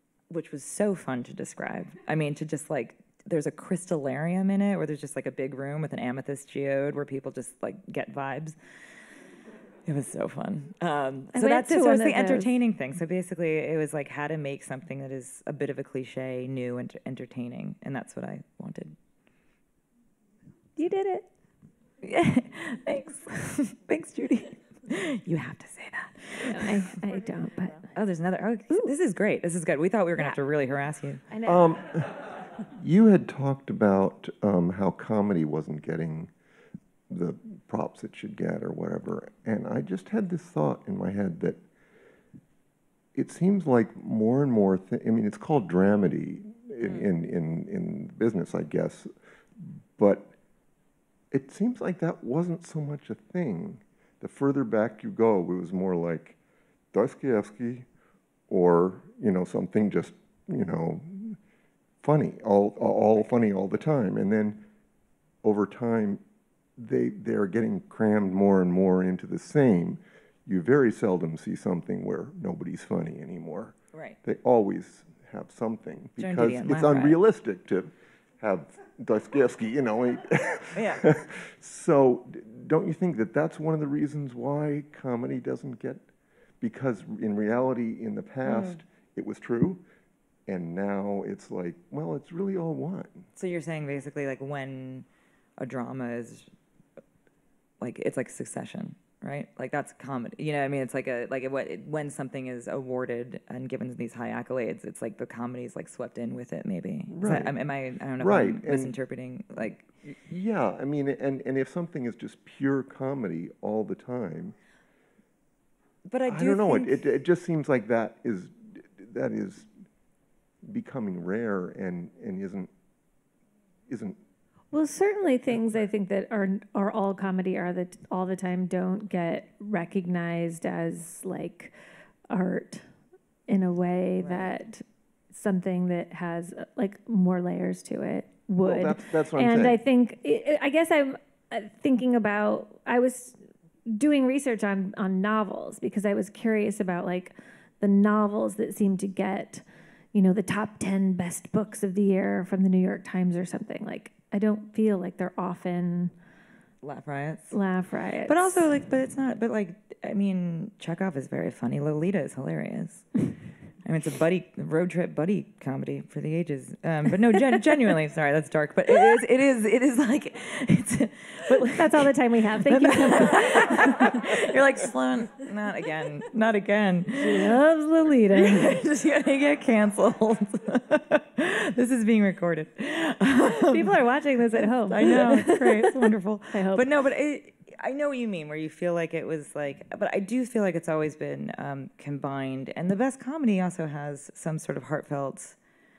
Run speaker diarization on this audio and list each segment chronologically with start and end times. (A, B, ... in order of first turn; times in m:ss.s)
0:00.3-0:08.6 A
0:09.8-0:18.9 A
0:11.3-0:12.5 B
0:20.8-0:21.3 B
0:22.0-0:26.9 A
0:26.4-0:27.8 B
0:27.9-0:31.2 A
0:31.3-0:31.7 B
0:31.4-0:36.3 C
0:37.1-0:41.6 C
0:43.1-0:50.3 C
0:51.3-0:56.4 C
0:56.9-0:57.9 C
0:58.5-1:01.4 C
1:02.0-1:04.6 C
1:05.4-1:06.2 C
1:06.8-1:26.0 C
1:13.9-1:14.2 A
1:16.2-1:17.2 A
1:20.7-1:21.1 A
1:26.6-1:29.8 C
1:28.4-1:28.8 A
1:30.5-1:33.2 C
1:33.4-1:35.0 A
1:35.6-1:36.5 A
1:37.8-1:49.9 A
1:47.1-1:47.6 C
1:48.2-1:48.9 C
1:50.0-1:54.5 C
1:56.1-1:57.0 A
1:56.3-1:59.7 C
2:00.6-2:02.7 C
2:03.9-2:04.2 C
2:04.7-2:11.7 B
2:12.3-2:12.9 B
2:13.5-2:36.1 B
2:18.6-2:19.8 C
2:36.8-2:37.6 A
2:37.5-2:38.7 B
2:38.3-2:43.2 A
2:43.8-2:57.6 A
2:51.7-2:54.2 B
2:57.2-2:58.8 B
2:58.3-3:04.0 A
3:03.7-3:06.8 B
3:04.8-3:15.6 A